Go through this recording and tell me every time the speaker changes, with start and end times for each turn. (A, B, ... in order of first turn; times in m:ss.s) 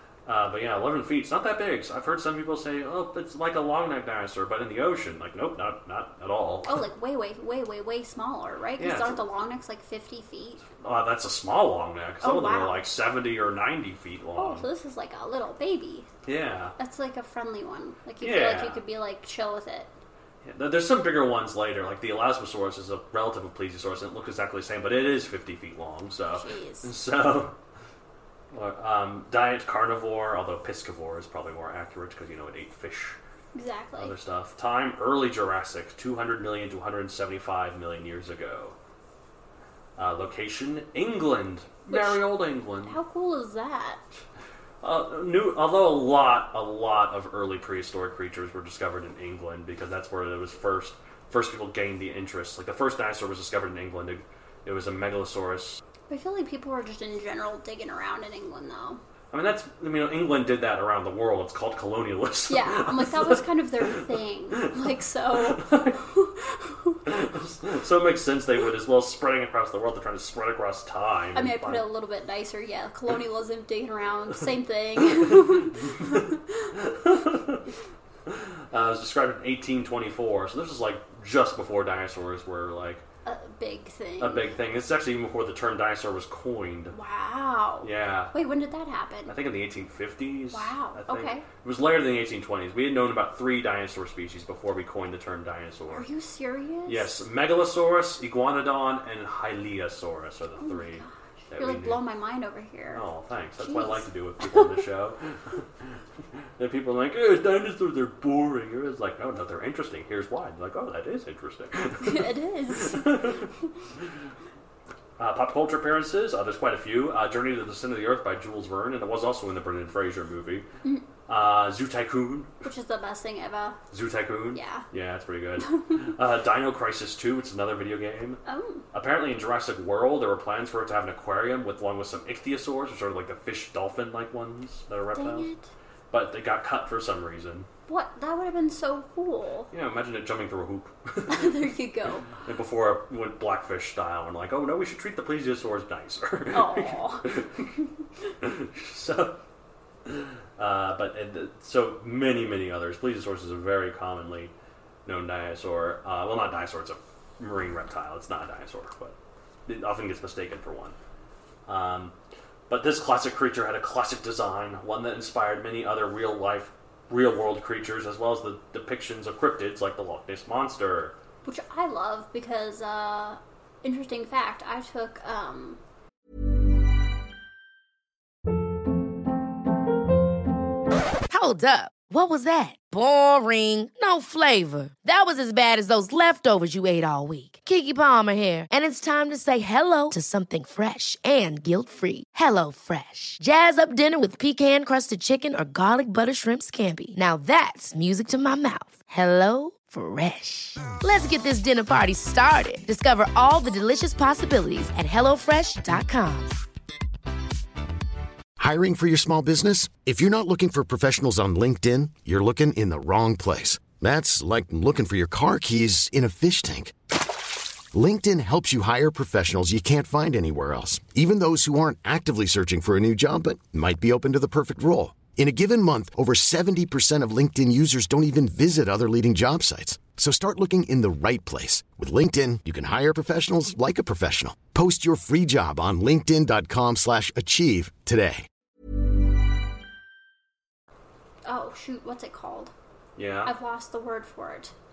0:00.2-0:06.8 A
0:06.6-0:10.6 B
0:08.8-0:09.2 A
0:10.7-0:14.7 A
0:12.2-0:12.8 B
0:14.4-0:16.1 B
0:16.2-0:16.7 A
0:16.8-0:19.9 B
0:18.2-0:18.8 A
0:20.4-0:27.5 A
0:26.3-0:26.9 B
0:28.5-0:33.2 A
0:33.5-0:34.1 B
0:34.0-0:38.8 A
0:40.0-0:43.0 A
0:41.9-0:42.2 B
0:42.8-0:44.0 B
0:44.8-0:55.8 A
0:56.1-0:59.0 B
0:59.3-1:04.7 A
1:02.5-1:07.0 B
1:05.3-1:06.0 A
1:07.0-1:11.8 A
1:11.3-1:16.4 B
1:15.3-1:16.2 A
1:16.7-1:17.6 A
1:18.2-1:23.0 A
1:23.2-1:24.5 B
1:24.2-1:26.9 A
1:26.9-1:29.3 B
1:27.8-1:28.3 A
1:29.3-1:36.1 A
1:30.5-1:31.4 B
1:35.9-1:37.1 B
1:36.9-1:42.0 A
1:40.6-1:43.0 B
1:42.9-1:45.9 A
1:43.6-1:44.7 B
1:46.6-1:53.5 A
1:52.0-1:53.5 B
1:55.2-2:00.6 A
2:01.3-2:02.6 A
2:02.6-2:03.8 B
2:03.9-2:08.4 A
2:04.5-2:04.8 B
2:08.4-2:08.8 B
2:08.9-2:15.5 A
2:15.1-2:15.7 B
2:16.1-2:17.7 A
2:17.9-2:19.7 B
2:19.7-2:21.6 A
2:21.3-2:22.3 B
2:22.3-2:27.7 A
2:26.5-2:27.2 B
2:28.4-2:29.4 A
2:30.0-2:34.5 A
2:35.0-2:39.2 A
2:39.7-2:41.0 A
2:41.7-2:42.1 A
2:42.7-2:51.2 A
2:51.4-2:55.8 B
3:01.3-3:26.5 C
3:28.6-3:36.9 D
3:37.9-3:58.4 D
4:01.4-4:02.7 B
4:03.2-4:03.5 A
4:03.4-4:04.7 B